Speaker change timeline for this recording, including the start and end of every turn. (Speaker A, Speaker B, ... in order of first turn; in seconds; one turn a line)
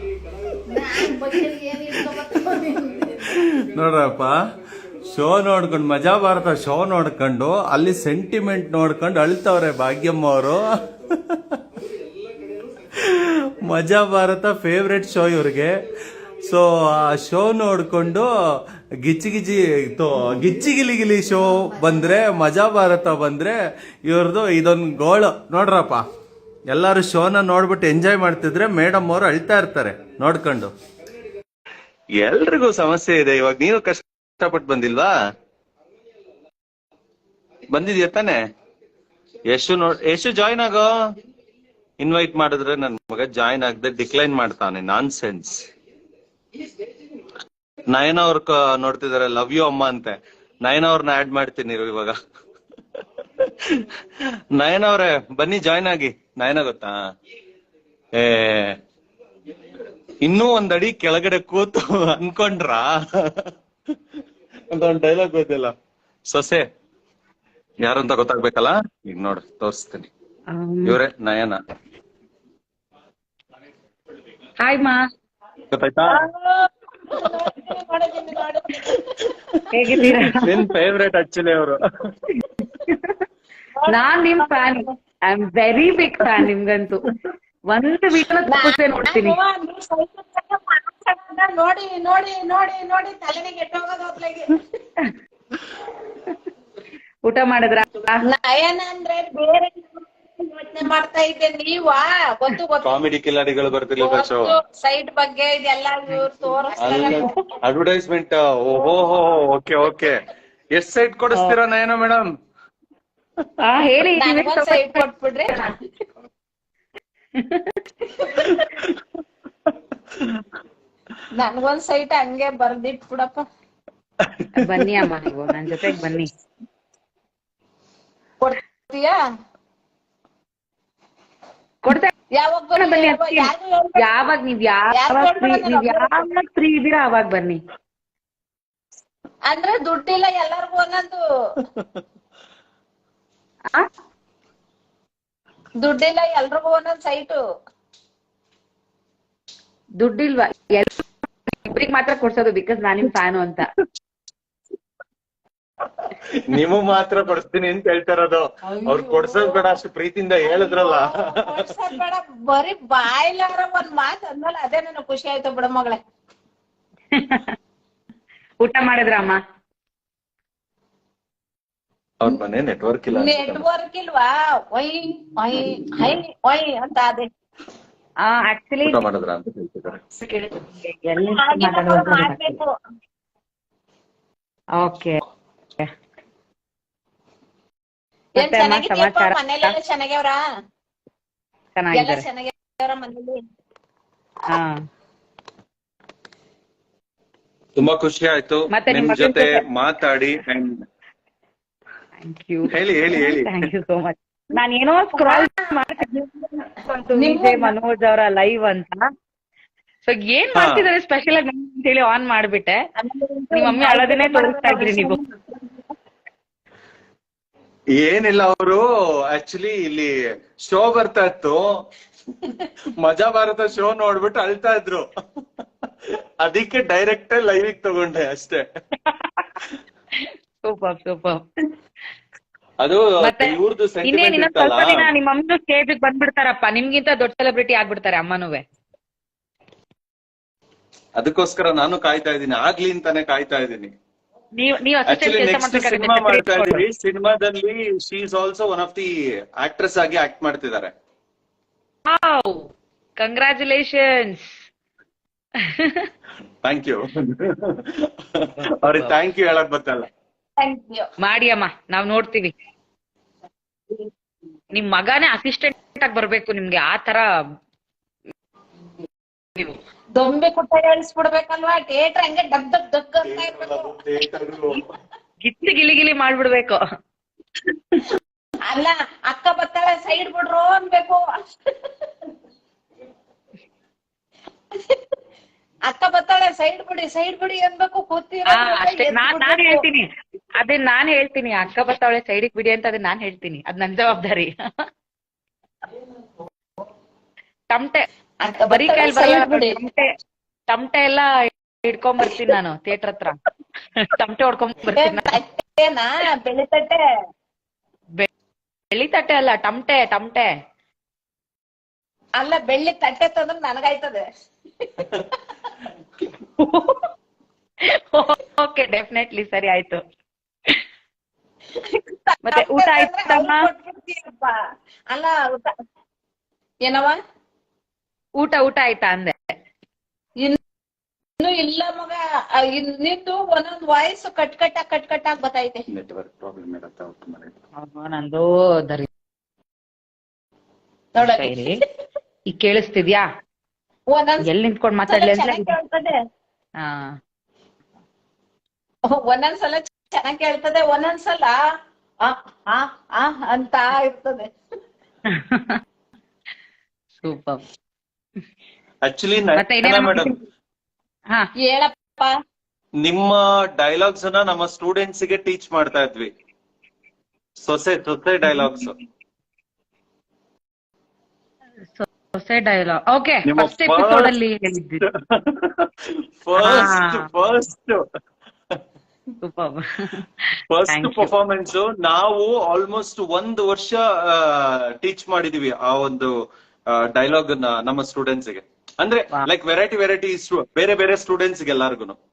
Speaker A: 0.7-3.2
Speaker B: 3.3-4.4
Speaker B: 4.9-11.6
Speaker B: 13.0-15.9
Speaker B: 16.4-18.3
Speaker B: 19.0-26.0
Speaker B: 26.7-30.7
Speaker B: 32.2-35.1
Speaker B: 37.7-38.4
Speaker B: 39.5-40.9
Speaker B: 42.0-45.7
Speaker B: 47.9-52.1
Speaker B: 53.4-53.9
Speaker B: 54.5-56.9
Speaker B: 58.2-58.8
Speaker B: 60.2-63.5
Speaker B: 64.7-65.7
Speaker B: 66.3-66.6
Speaker B: 67.8-70.1
Speaker C: 70.5-71.0
Speaker B: 70.8-71.6
Speaker C: 74.6-75.0
Speaker B: 75.7-76.2
Speaker A: 76.1-79.0
Speaker C: 79.7-80.6
Speaker B: 80.0-81.8
Speaker C: 82.4-83.1
Speaker A: 83.8-84.9
Speaker C: 83.9-87.0
Speaker C: 87.7-89.4
Speaker A: 88.5-94.5
Speaker C: 97.2-98.2
Speaker A: 98.3-102.9
Speaker B: 102.8-104.6
Speaker A: 104.0-107.3
Speaker B: 106.8-110.2
Speaker C: 106.9-107.4
Speaker B: 110.7-112.2
Speaker C: 113.6-115.7
Speaker A: 114.2-115.7
Speaker C: 117.4-117.7
Speaker B: 119.7-120.3
Speaker A: 121.4-123.4
Speaker B: 124.2-124.9
Speaker C: 124.5-126.3
Speaker A: 128.4-129.2
Speaker C: 131.8-132.1
Speaker A: 132.4-134.1
Speaker C: 132.8-137.6
Speaker A: 134.9-136.3
Speaker A: 139.5-141.2
Speaker B: 141.7-142.0
Speaker A: 145.8-147.4
Speaker C: 150.0-151.0
Speaker C: 151.6-153.7
Speaker B: 156.5-161.6
Speaker A: 158.7-159.7
Speaker A: 160.4-166.0
Speaker C: 167.1-167.5
Speaker C: 168.6-169.4
Speaker B: 172.2-173.6
Speaker A: 173.1-177.2
Speaker C: 178.2-179.0
Speaker B: 178.8-180.0
Speaker C: 180.2-182.6
Speaker A: 181.3-182.7
Speaker C: 184.8-185.2
Speaker A: 188.4-190.4
Speaker C: 188.4-189.7
Speaker C: 191.7-192.2
Speaker A: 191.9-193.4
Speaker C: 194.5-194.7
Speaker B: 197.8-200.8
Speaker C: 198.7-199.6
Speaker C: 202.2-206.1
Speaker B: 202.7-203.6
Speaker A: 205.2-207.7
Speaker C: 206.8-209.1
Speaker C: 210.0-212.8
Speaker B: 210.6-210.8
Speaker A: 213.0-215.8
Speaker C: 213.5-215.2
Speaker B: 218.0-220.1
Speaker B: 220.6-221.6
Speaker B: 223.0-225.0
Speaker B: 226.4-228.6
Speaker C: 229.1-229.5
Speaker C: 230.2-231.4
Speaker B: 232.8-235.0
Speaker C: 233.2-238.6
Speaker B: 241.2-243.9
Speaker C: 244.6-246.8
Speaker B: 245.1-250.9
Speaker C: 252.1-252.7
Speaker C: 253.2-254.5
Speaker C: 255.8-256.1
Speaker B: 256.6-260.1
Speaker C: 258.9-259.1
Speaker A: 260.6-261.1
Speaker C: 261.2-262.5
Speaker C: 264.7-267.3
Speaker A: 270.1-273.9
Speaker B: 273.2-274.8
Speaker C: 275.4-276.8
Speaker A: 278.7-281.2
Speaker A: 285.9-289.8
Speaker C: 288.5-290.0
Speaker C: 290.6-294.5
Speaker C: 297.7-298.0
Speaker A: 298.4-299.8
Speaker C: 298.6-300.1
Speaker C: 300.7-303.4
Speaker C: 304.0-305.4
Speaker A: 304.9-307.0
Speaker C: 308.9-310.5
Speaker A: 312.4-314.2
Speaker C: 316.6-316.9
Speaker C: 318.0-320.0
Speaker A: 321.9-324.6
Speaker C: 322.4-323.7
Speaker A: 325.1-325.7
Speaker A: 326.9-327.2
Speaker C: 328.4-329.3
Speaker A: 331.4-335.9
Speaker B: 335.9-337.6
Speaker C: 337.8-339.1
Speaker A: 341.1-341.8
Speaker C: 341.2-341.8
Speaker C: 342.5-343.2
Speaker A: 344.1-344.5
Speaker C: 344.4-345.7
Speaker A: 345.1-346.1
Speaker C: 346.8-347.1
Speaker A: 349.1-351.6
Speaker A: 352.2-354.5
Speaker C: 355.3-355.8
Speaker C: 357.2-357.6
Speaker B: 359.0-360.3
Speaker C: 359.6-360.3
Speaker A: 361.6-362.3
Speaker B: 363.0-366.3
Speaker B: 367.6-368.9
Speaker C: 368.5-368.8
Speaker C: 371.9-375.0
Speaker B: 373.4-374.3
Speaker B: 375.0-375.9
Speaker B: 376.4-378.0
Speaker C: 376.6-377.3
Speaker C: 379.4-380.3
Speaker B: 380.7-386.3
Speaker C: 380.9-381.3
Speaker B: 386.9-392.1